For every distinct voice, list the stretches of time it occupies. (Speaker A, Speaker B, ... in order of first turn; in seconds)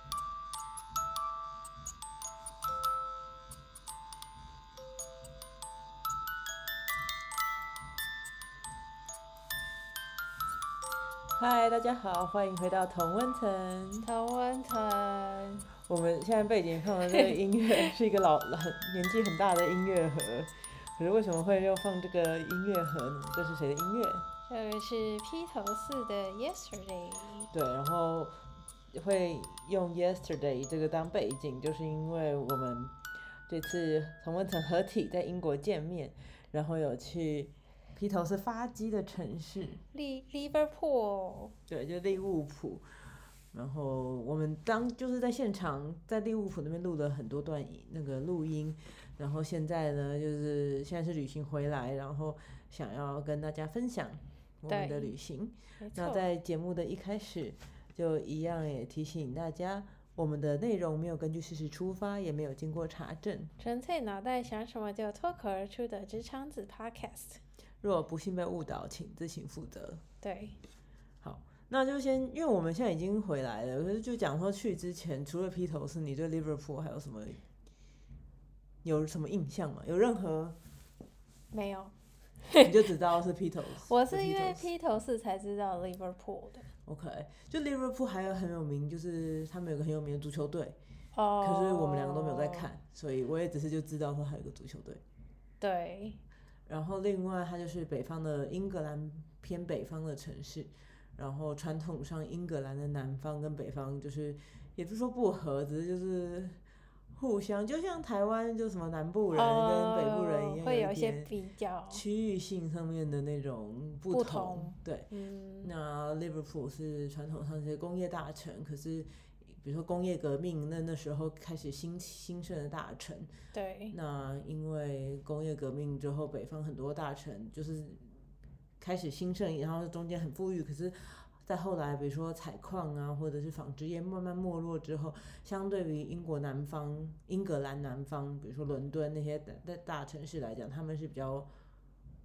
Speaker A: 11.4-14.1, 15.9-24.2, 27.5-28.4, 28.9-32.9, 33.5-39.8, 41.7-42.9, 43.5-63.5, 67.8-70.0, 71.2-77.4, 78.8-80.5, 82.6-84.7, 86.9-90.8, 91.4-95.0, 96.7-106.6, 107.1-111.3, 111.9-115.1, 115.6-119.1, 119.6-123.3, 123.9-128.1, 128.8-141.5
Speaker B: 14.0-15.7, 24.5-27.5, 39.9-41.5, 54.7-55.2, 55.8-56.2, 63.6-67.4, 70.2-70.5, 81.5-82.7, 83.8-86.7, 91.1-92.7, 95.6-96.2, 109.3-112.0, 114.1-115.7, 123.5-124.0